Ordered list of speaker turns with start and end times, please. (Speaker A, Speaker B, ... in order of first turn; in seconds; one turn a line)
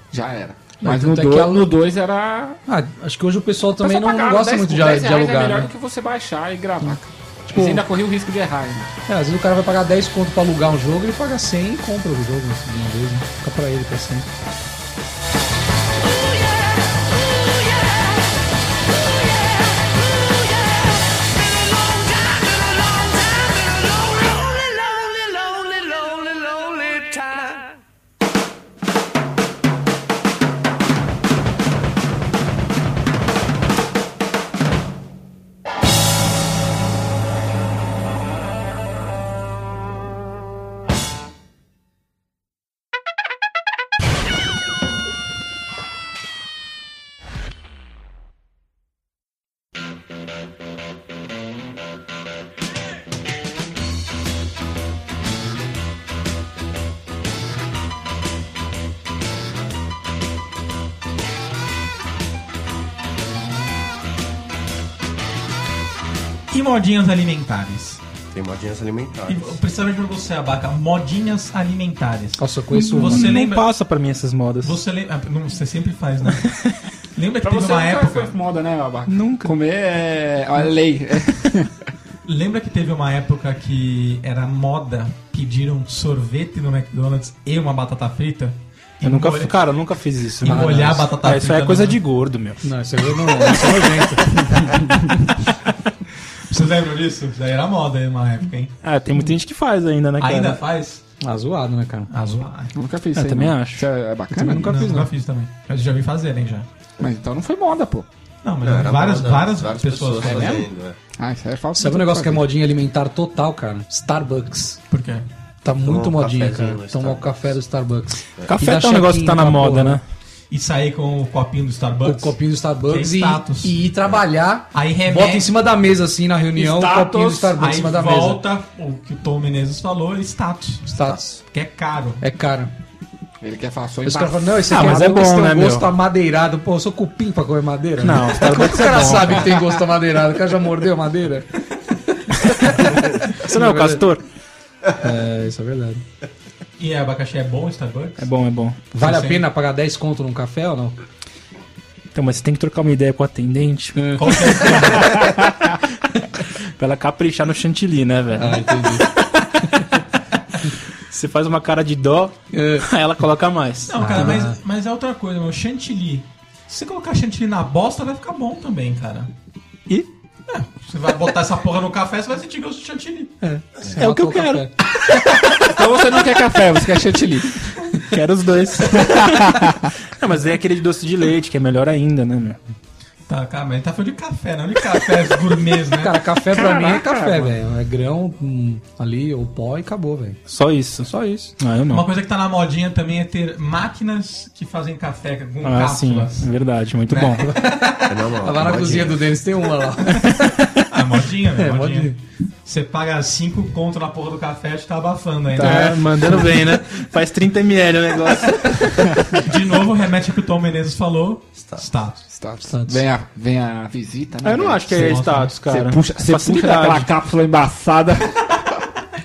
Speaker A: 0.1-2.6
Speaker B: 0.8-1.7
Speaker B: 2.7-5.7
Speaker A: 3.8-8.9
Speaker B: 7.5-7.8
Speaker B: 9.1-14.3
Speaker C: 66.5-68.0
Speaker D: 68.3-69.6
Speaker C: 69.3-72.4
Speaker B: 72.4-73.3
Speaker E: 72.7-74.8
Speaker C: 73.0-73.7
Speaker C: 74.6-76.5
Speaker E: 76.5-76.8
Speaker C: 77.1-78.3
Speaker A: 77.4-81.9
Speaker E: 79.1-79.5
Speaker C: 82.2-89.6
Speaker E: 89.0-92.7
Speaker C: 90.4-92.0
Speaker B: 90.4-91.0
Speaker B: 92.6-95.1
Speaker C: 96.4-98.8
Speaker E: 98.8-100.6
Speaker C: 100.2-101.0
Speaker B: 101.2-102.1
Speaker C: 102.1-102.7
Speaker A: 102.7-105.1
Speaker E: 103.1-103.9
Speaker B: 104.3-105.1
Speaker C: 104.7-106.7
Speaker A: 107.0-108.1
Speaker C: 108.4-110.6
Speaker D: 108.6-111.0
Speaker A: 110.2-110.7
Speaker A: 111.2-112.4
Speaker B: 111.8-114.8
Speaker C: 114.9-115.3
Speaker B: 115.6-120.0
Speaker D: 115.8-117.4
Speaker E: 118.5-120.0
Speaker C: 120.5-123.7
Speaker B: 122.0-128.4
Speaker C: 124.7-125.5
Speaker A: 126.5-127.6
Speaker C: 127.6-132.2
Speaker B: 130.9-131.4
Speaker B: 132.2-132.7
Speaker A: 133.4-135.2
Speaker B: 134.0-141.5
Speaker E: 134.7-135.9
Speaker E: 138.0-139.6
Speaker B: 142.3-144.1
Speaker E: 143.2-144.2
Speaker B: 144.9-146.0
Speaker C: 146.8-148.3
Speaker E: 148.2-148.9
Speaker C: 148.9-149.4
Speaker B: 148.9-151.0
Speaker E: 152.1-154.2
Speaker B: 153.9-155.2
Speaker C: 154.2-155.3
Speaker E: 155.1-155.8
Speaker E: 156.5-159.0
Speaker B: 158.3-159.1
Speaker E: 161.1-164.5
Speaker B: 162.5-162.9
Speaker C: 163.9-169.3
Speaker B: 164.0-164.6
Speaker C: 170.5-173.4
Speaker B: 173.4-174.8
Speaker E: 174.0-174.7
Speaker A: 175.5-177.7
Speaker E: 178.1-182.6
Speaker A: 178.9-179.9
Speaker C: 183.3-186.1
Speaker B: 185.9-190.4
Speaker A: 186.5-187.6
Speaker E: 190.5-192.1
Speaker B: 191.0-191.5
Speaker C: 191.9-196.5
Speaker E: 195.6-197.5
Speaker B: 197.1-200.9
Speaker D: 198.1-199.2
Speaker C: 200.9-202.1
Speaker B: 201.4-202.2
Speaker C: 202.6-206.6
Speaker B: 205.6-206.5
Speaker E: 205.6-209.0
Speaker C: 209.3-212.2
Speaker D: 211.6-211.9
Speaker A: 212.3-218.6
Speaker B: 212.6-213.0
Speaker E: 214.4-217.1
Speaker C: 214.9-215.6